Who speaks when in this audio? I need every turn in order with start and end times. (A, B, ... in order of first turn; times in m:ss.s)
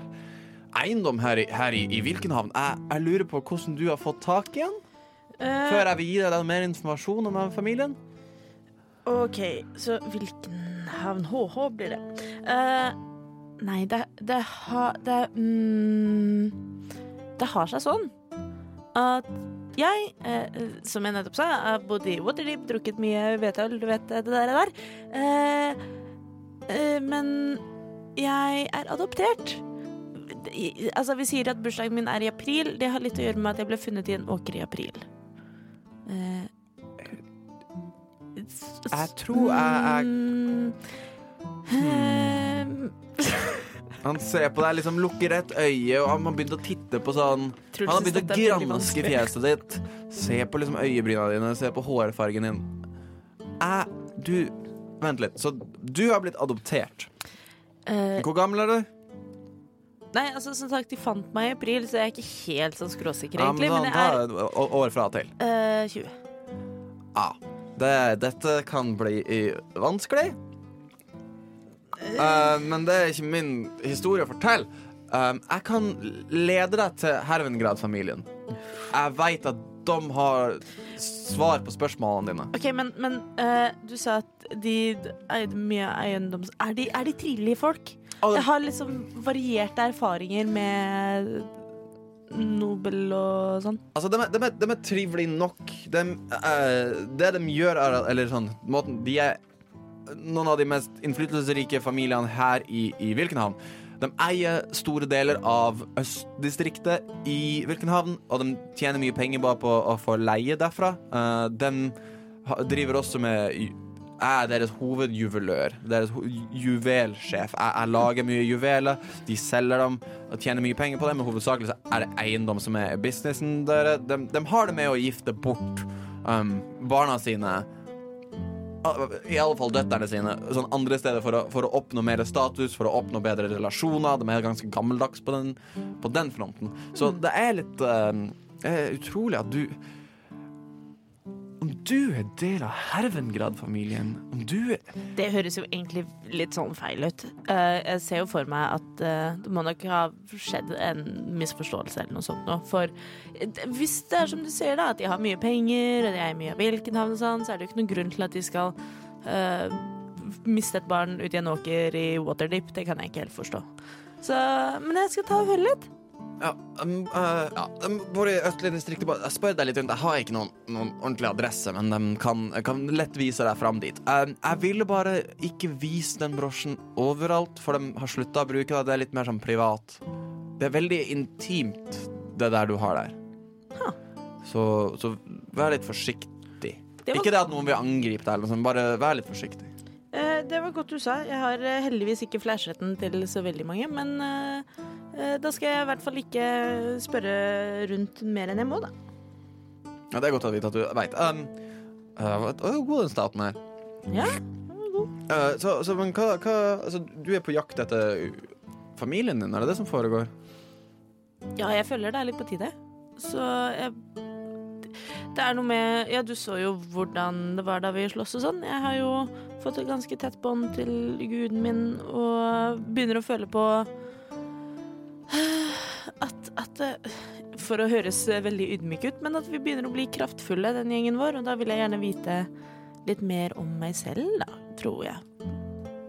0:00.7-0:04.8 A
0:05.4-0:05.9 B
0:05.6-0:08.0 A
0:09.0-0:13.0 B
0:13.6-0:16.6 B
0:17.4-0:18.1 B
0:18.9-0:25.8 B
0:26.7-0:27.6 B
0:28.2-0:29.6 B
0:30.1-0:35.0 B
0:36.0-0:36.5 B
0:38.4-0:40.8 B
0:38.9-0:40.1 A
0:41.7-0:43.7 B
0:41.7-0:42.4 A
0:44.0-0:52.8 A
0:47.7-0:49.3 B
0:53.6-0:57.1 A
0:57.8-0:58.3 B
0:58.2-0:58.9 A
1:00.1-1:04.2 B
1:03.4-1:05.3 A
1:05.4-1:06.1 B
1:07.1-1:10.4 A
1:12.1-1:18.3 A
1:18.9-1:22.5 A
1:22.5-1:31.5 B
1:28.2-1:28.5 A
1:32.3-1:33.8 B
1:33.9-1:39.4 A
1:40.1-2:07.7 A
2:08.8-2:19.8 A
2:21.6-2:24.8 A
2:25.1-2:43.6 B
2:44.2-2:45.9 B
2:46.4-3:00.0 A
3:00.6-3:03.2 A
3:04.4-3:09.7 A
3:10.1-3:18.9 B
3:20.1-3:21.5 A
3:22.2-3:23.6 A
3:24.1-3:25.1 B
3:25.3-3:30.3 A
3:31.6-3:34.0 B
3:35.3-3:43.9 B
3:45.3-3:52.5 B
3:53.0-3:55.2 B